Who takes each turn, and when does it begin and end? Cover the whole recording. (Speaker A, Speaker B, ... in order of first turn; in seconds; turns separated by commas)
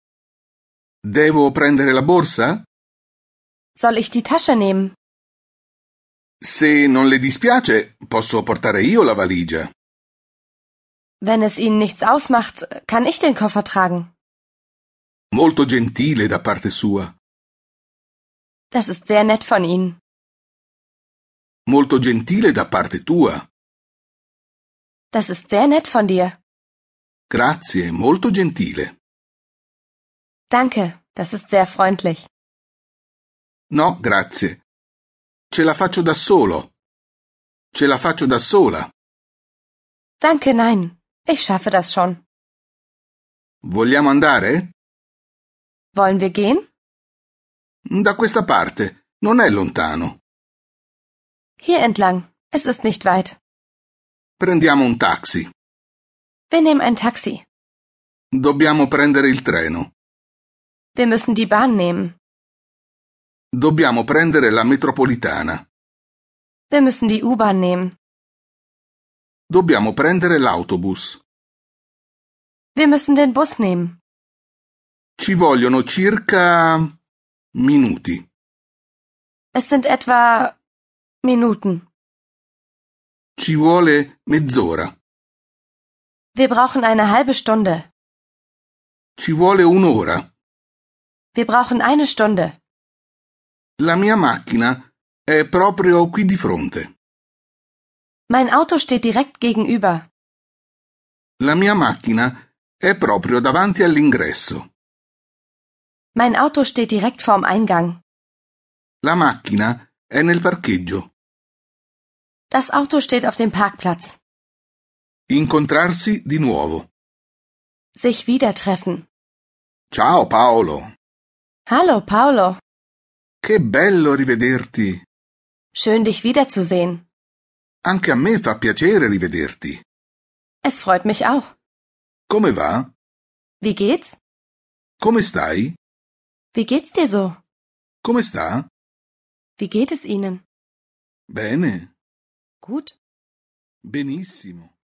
Speaker A: 1.0-2.6, Speaker B: 3.8-4.9, Speaker A: 6.4-9.7, Speaker B: 11.2-14.1, Speaker A: 15.3-17.1, Speaker B: 18.7-20.0, Speaker A: 21.7-23.5, Speaker B: 25.1-26.4, Speaker A: 27.3-28.9, Speaker B: 30.5-32.2, Speaker A: 33.7-34.6, Speaker A: 35.5-36.7, Speaker A: 37.7-38.9, Speaker B: 40.2-42.2, Speaker A: 43.6-44.7, Speaker B: 46.0-46.7, Speaker A: 47.9-50.2, Speaker B: 51.6-53.4, Speaker A: 54.4-55.5, Speaker B: 56.5-57.4, Speaker A: 58.3-59.9, Speaker B: 61.0-62.1, Speaker A: 63.5-65.6, Speaker B: 66.7-68.0, Speaker A: 69.5-71.2, Speaker B: 72.8-74.0, Speaker A: 75.2-76.9, Speaker A: 77.5-78.2, Speaker B: 79.5-80.6, Speaker B: 81.2-81.9, Speaker A: 83.4-84.9, Speaker B: 86.3-87.9, Speaker A: 89.2-90.3, Speaker B: 91.3-92.6, Speaker A: 93.8-96.9, Speaker B: 98.3-100.1, Speaker A: 101.4-104.7, Speaker B: 106.2-108.0, Speaker A: 109.0-111.1, Speaker B: 112.5-114.2, Speaker A: 115.3-116.9, Speaker B: 118.0-119.0, Speaker A: 119.9-120.9, Speaker B: 121.7-122.6, Speaker A: 123.4-125.0, Speaker B: 125.8-127.0, Speaker A: 127.8-129.8, Speaker B: 130.6-131.5, Speaker A: 132.3-132.9, Speaker B: 133.6-134.2, Speaker A: 135.0-135.8, Speaker B: 136.5-137.4, Speaker A: 138.0-138.7, Speaker B: 139.6-140.4, Speaker A: 141.3-141.9, Speaker B: 142.6-142.9, Speaker A: 143.8-144.7